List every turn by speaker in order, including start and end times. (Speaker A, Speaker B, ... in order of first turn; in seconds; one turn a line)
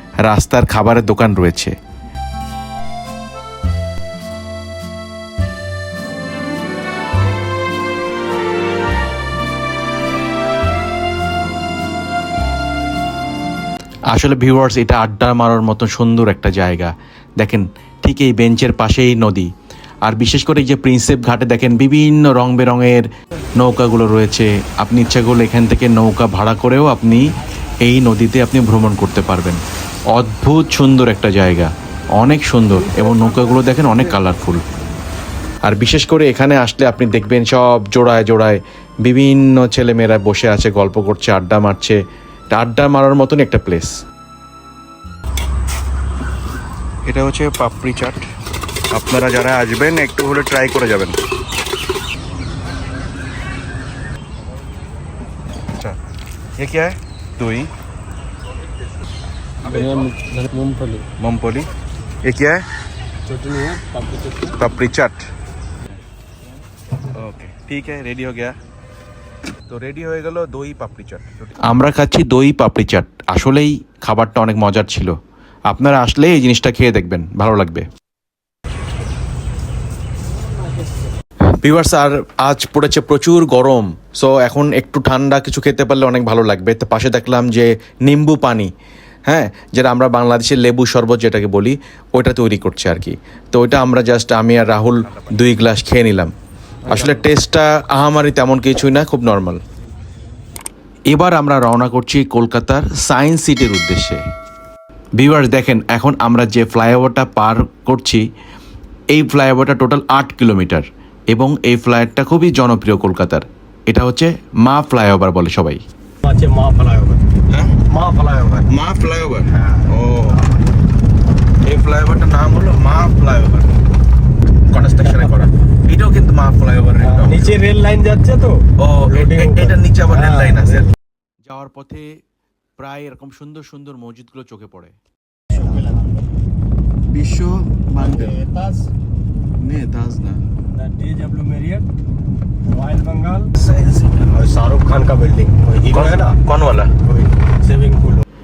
Speaker A: 0.2-1.8
Speaker A: 14.1-19.5
Speaker A: 20.1-27.3
Speaker A: 27.8-29.6
Speaker A: 30.1-34.6
Speaker A: 35.7-44.0
Speaker B: 47.1-48.1
Speaker B: 48.9-51.2
Speaker B: 56.6-57.7
Speaker C: 59.6-61.1
Speaker B: 61.2-61.7
Speaker B: 62.3-62.6
Speaker C: 63.3-64.7
Speaker B: 64.6-65.1
Speaker B: 67.2-68.5
Speaker B: 69.7-71.5
Speaker A: 71.6-75.2
Speaker A: 75.7-77.9
Speaker A: 81.6-88.7
Speaker A: 89.3-96.3
Speaker A: 96.9-99.6
Speaker A: 101.1-104.2
Speaker A: 105.2-108.2
Speaker A: 109.1-115.8
Speaker C: 116.2-117.3
Speaker C: 117.8-118.7
Speaker B: 118.7-120.3
Speaker B: 121.7-123.6
Speaker A: 122.2-123.4
Speaker A: 124.7-126.1
Speaker C: 125.0-125.3
Speaker B: 125.9-127.3
Speaker C: 127.0-130.9
Speaker A: 129.1-130.7
Speaker A: 131.4-132.2
Speaker A: 132.8-135.0
Speaker C: 135.5-136.1
Speaker B: 137.1-138.3
Speaker C: 138.2-138.8
Speaker B: 139.7-140.3
Speaker C: 140.7-141.9
Speaker C: 142.7-146.4
Speaker B: 145.9-146.9
Speaker C: 147.0-148.2